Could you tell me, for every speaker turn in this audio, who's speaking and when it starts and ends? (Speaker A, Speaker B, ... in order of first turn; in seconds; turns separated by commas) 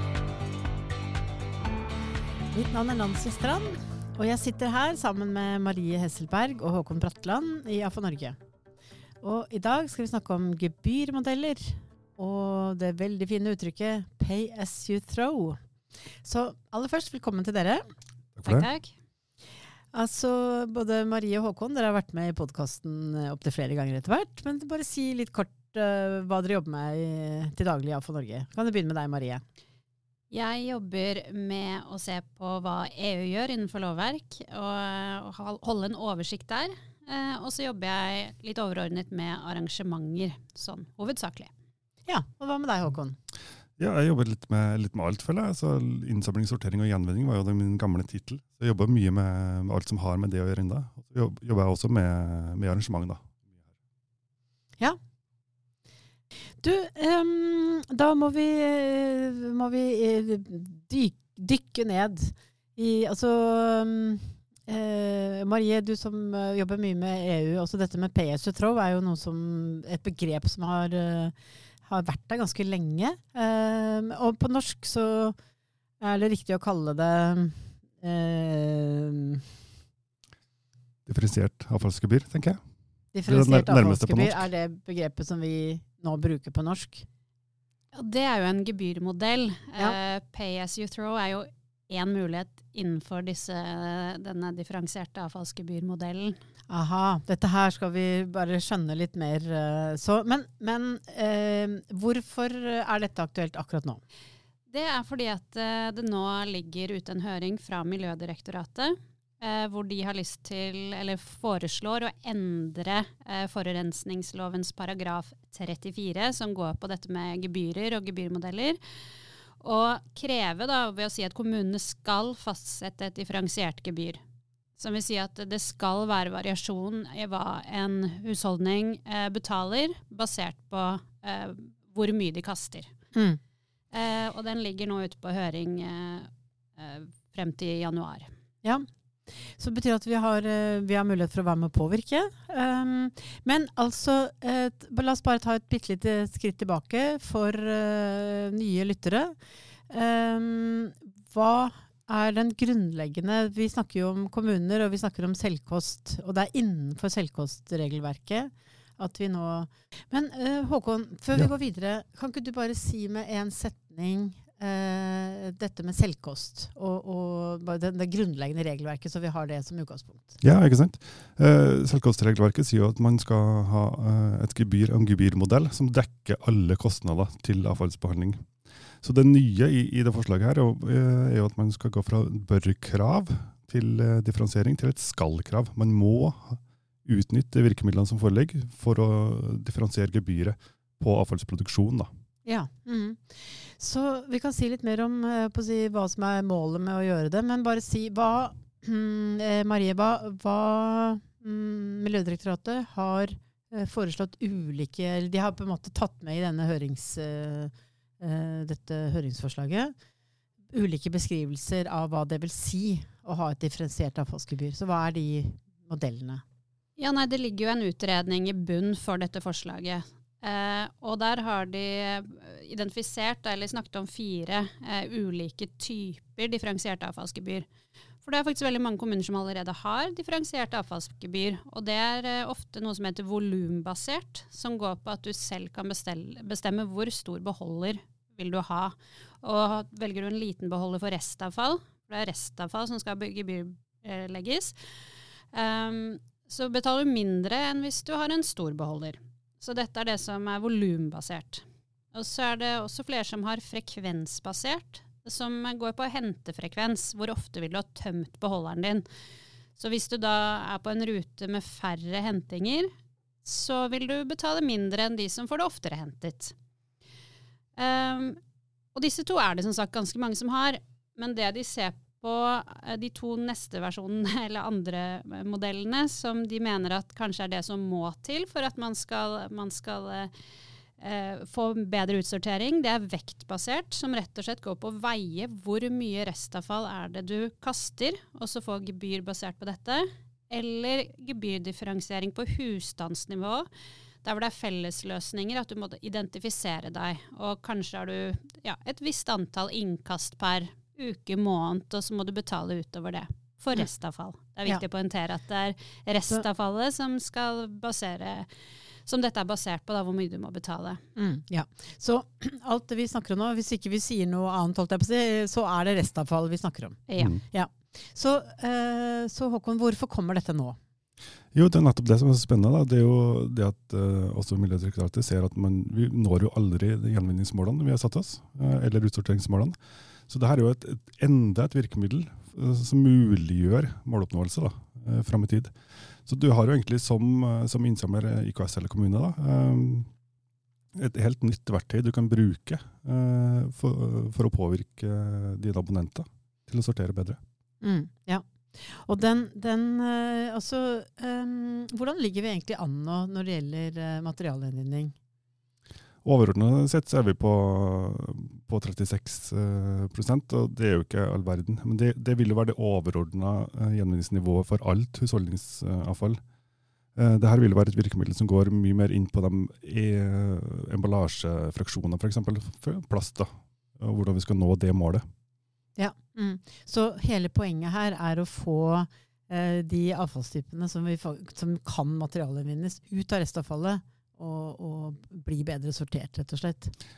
Speaker A: 2.5-8.3, Speaker A: 9.2-15.6, Speaker A: 16.2-17.9, Speaker B: 18.4-18.7, Speaker C: 18.5-18.9, Speaker A: 19.9-29.4, Speaker C: 30.3-41.5, Speaker A: 42.0-43.1, Speaker B: 43.8-53.4, Speaker A: 56.6-71.3, Speaker A: 71.8-75.3, Speaker A: 76.0-79.5, Speaker B: 81.0-82.6, Speaker A: 83.1-87.1, Speaker B: 83.2-84.5, Speaker C: 87.9-96.4, Speaker A: 96.7-104.0, Speaker C: 104.7-118.8, Speaker C: 119.6-124.2, Speaker C: 124.8-132.9, Speaker A: 133.1-133.4, Speaker C: 133.9-138.3, Speaker A: 138.6-149.3, Speaker A: 149.9-170.4, Speaker B: 170.4-178.5, Speaker B: 179.0-192.1, Speaker A: 192.4-209.9, Speaker A: 210.7-216.4, Speaker C: 217.0-227.7, Speaker C: 228.2-244.8, Speaker C: 245.5-259.1, Speaker C: 259.8-262.9, Speaker C: 263.4-266.5, Speaker C: 267.8-268.4, Speaker C: 268.9-280.3, Speaker C: 281.0-293.7, Speaker C: 294.2-308.5, Speaker C: 309.0-311.0, Speaker A: 311.1-320.8, Speaker C: 317.1-317.3, Speaker B: 321.5-329.8, Speaker B: 330.3-335.7, Speaker B: 336.2-340.1, Speaker B: 340.9-347.4, Speaker A: 347.8-355.1, Speaker B: 356.2-366.4, Speaker B: 367.1-375.2, Speaker A: 376.0-386.9